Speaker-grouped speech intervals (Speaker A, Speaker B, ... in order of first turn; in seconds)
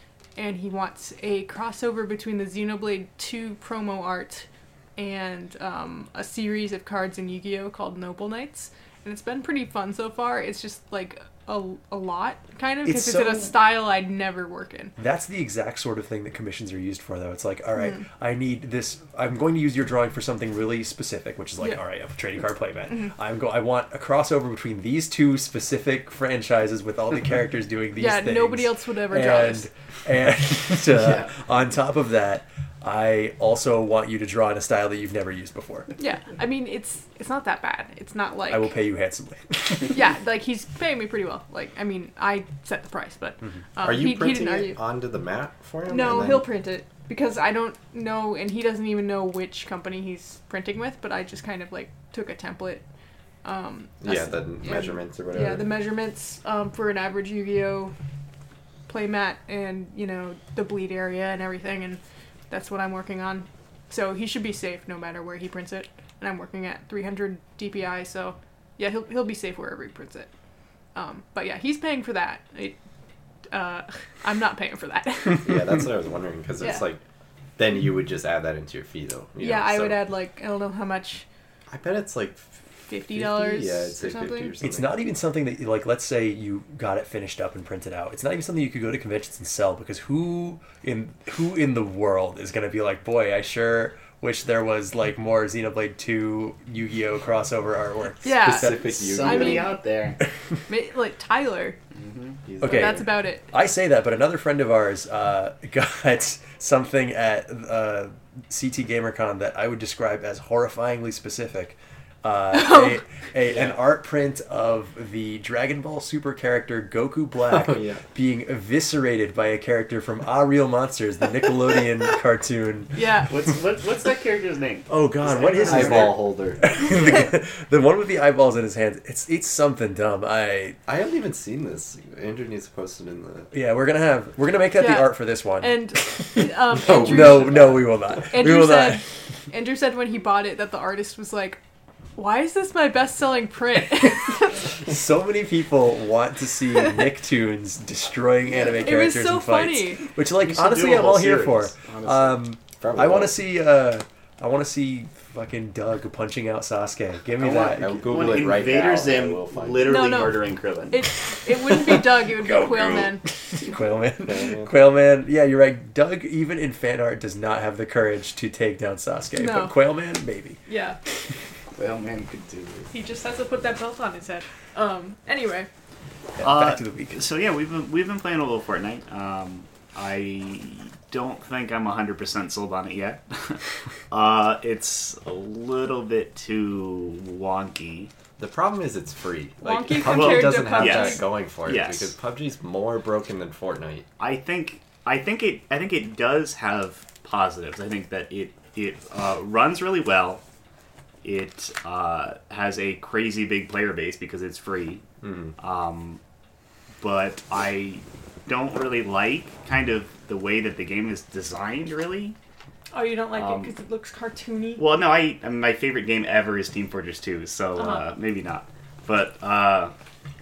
Speaker A: 0.3-14.9, 17.8-18.0, 27.9-29.7, 36.0-38.7, 39.9-44.8, 45.9-52.8, 53.4-57.9, 58.9-70.3, 70.9-72.8, 73.5-75.7, 76.6-76.8, 79.4-81.2, 82.9-84.5, 98.2-99.8, 100.7-101.8, 102.6-103.5, 112.5-113.0, 122.9-123.3, 134.8-141.6, 142.2-144.6, 148.5-150.0, 159.9-163.2, 169.3-169.8, 170.7-171.0, 172.9-175.7, 189.6-191.2, 212.9-214.8, 217.8-218.0
Speaker B: 12.8-13.6, 15.0-35.9, 38.5-40.0, 84.6-98.3, 102.6-123.3, 124.9-130.8, 133.5-139.0, 144.8-158.1, 162.4-170.6, 176.4-177.2
Speaker C: 31.0-31.3, 98.7-100.2, 101.9-102.4, 113.5-113.8, 123.3-126.2, 150.4-152.4, 157.4-161.0, 171.7-172.9, 176.4-188.1, 189.9-192.1, 194.2-200.4, 201.2-205.0, 205.6-206.2, 207.0-212.3, 213.3-213.7, 214.8-219.9
Speaker D: 43.8-46.5, 54.0-55.9, 75.4-77.0, 77.6-80.0, 81.7-85.0, 98.2-99.7, 102.5-103.1, 117.5-118.0, 125.6-126.6, 130.8-133.5, 136.7-138.1, 152.8-153.3, 157.7-160.3, 164.2-164.7, 188.4-194.1, 205.2-205.5